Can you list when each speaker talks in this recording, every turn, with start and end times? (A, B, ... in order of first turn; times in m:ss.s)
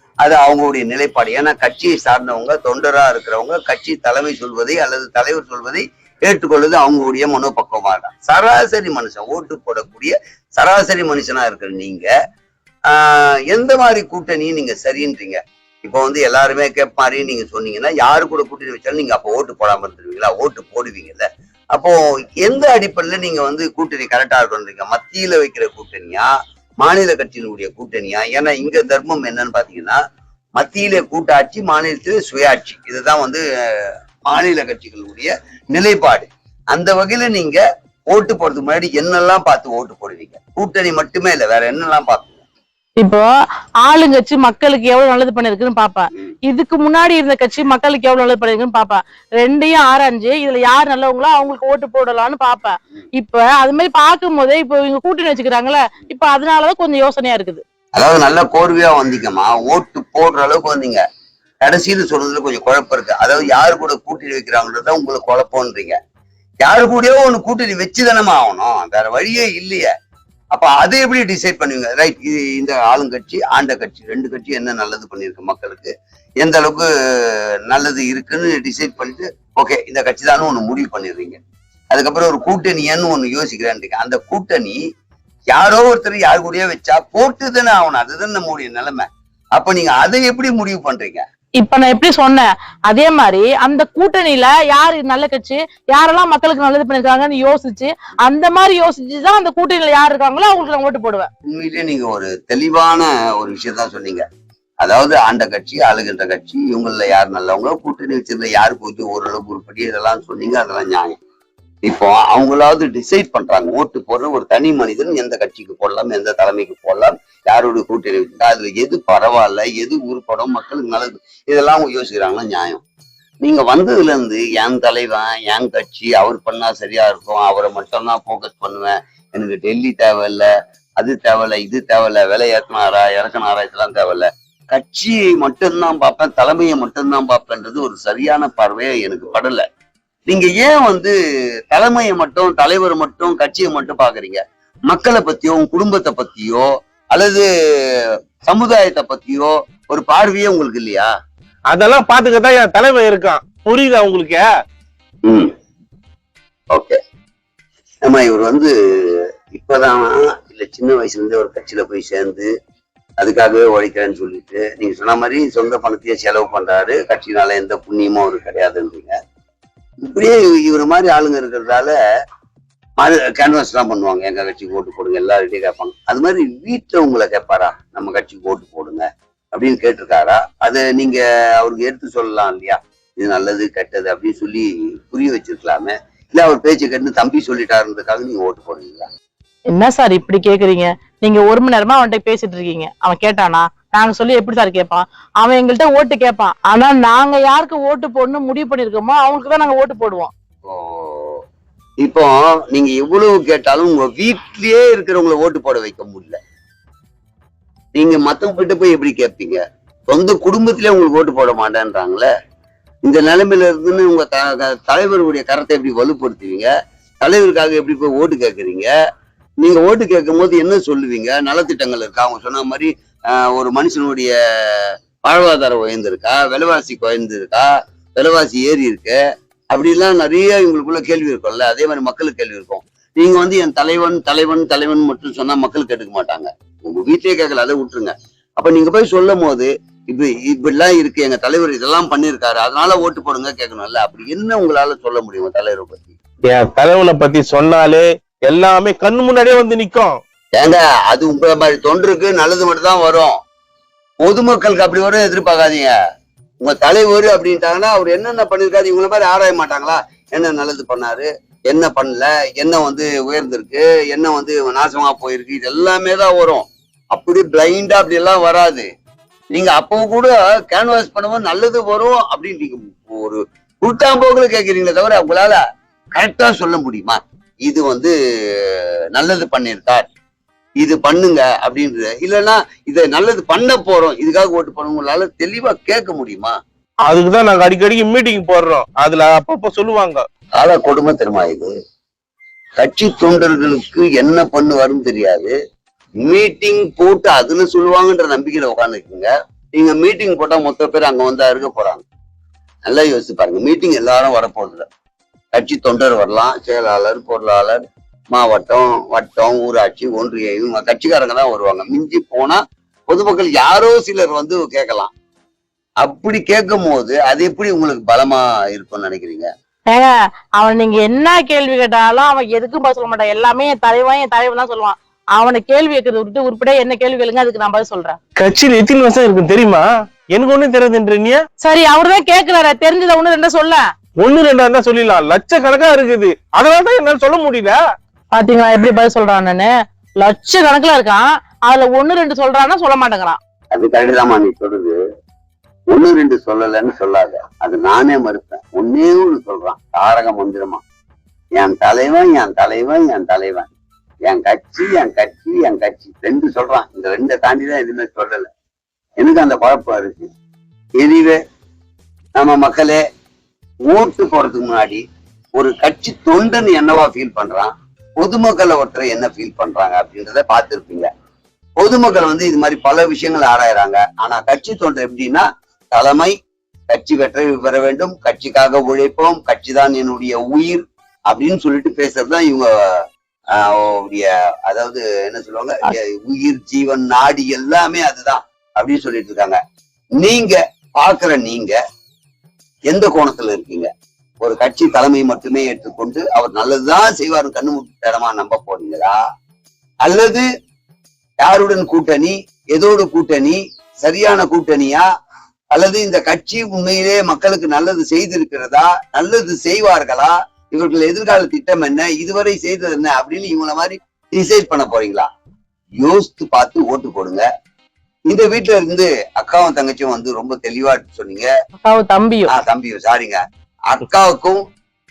0:00.2-0:12.1 A
0:12.9-0:26.3 A
0:26.8-0:30.0 A
0:30.6-0:42.4 A
0:43.0-0:43.3 B
0:43.8-0:57.6 B
0:58.0-1:01.0 A
1:01.6-1:06.0 A
1:06.6-1:09.9 A
1:10.5-1:16.9 A
1:17.7-1:21.4 A
1:21.9-1:24.8 A
1:25.5-1:31.2 A
1:31.6-1:41.3 B
1:41.5-1:44.2 A
1:44.8-1:51.2 A
1:51.8-2:02.8 A
2:03.4-2:19.6 A
2:20.3-2:21.1 A
2:21.7-2:27.4 A
2:28.5-2:31.1 A
2:31.7-2:34.4 C
2:36.7-2:37.0 A
2:38.1-2:42.5 A
2:43.2-2:49.2 A
2:50.0-2:51.9 A
2:53.0-3:09.1 A
3:09.7-3:20.3 B
3:20.7-3:21.4 A
3:22.0-3:26.4 A
3:27.9-3:32.3 A
3:33.1-3:36.7 A
3:37.2-3:38.9 A
3:39.6-3:49.2 A
3:49.7-4:06.2 A
4:06.5-4:10.2 C
4:10.6-4:13.4 A
4:14.2-4:15.9 A
4:16.6-4:28.9 A
4:29.5-4:35.6 A
4:36.2-4:38.1 A
4:39.2-4:40.1 A
4:40.8-4:46.6 A
4:47.0-4:50.2 C
4:50.6-4:51.7 A
4:52.8-4:55.5 A
4:56.2-5:02.0 A
5:02.8-5:04.8 A
5:05.5-5:12.6 A
5:13.1-5:15.1 A
5:16.0-5:19.5 A
5:19.9-5:28.2 B
5:28.4-5:31.4 C
5:31.6-5:33.8 B
5:34.2-5:37.8 C
5:38.3-5:39.7 B
5:40.2-5:43.4 B
5:43.7-5:45.0 A
5:45.9-5:50.8 A
5:51.6-5:53.7 A
5:54.3-5:58.5 A
5:59.2-6:00.3 A
6:01.0-6:01.4 A
6:02.4-6:03.0 A
6:03.9-6:05.0 A
6:05.6-6:11.1 A
6:11.8-6:16.3 A
6:16.9-6:22.7 A
6:23.6-6:29.6 A
6:30.2-6:31.8 A
6:32.9-6:33.9 A
6:34.4-6:39.2 A
6:40.0-6:40.4 A
6:41.4-6:45.0 A
6:45.7-6:55.3 A
6:56.0-6:57.4 A
6:58.3-7:01.5 A
7:01.8-7:02.5 B
7:02.5-7:03.4 A
7:03.9-7:04.6 A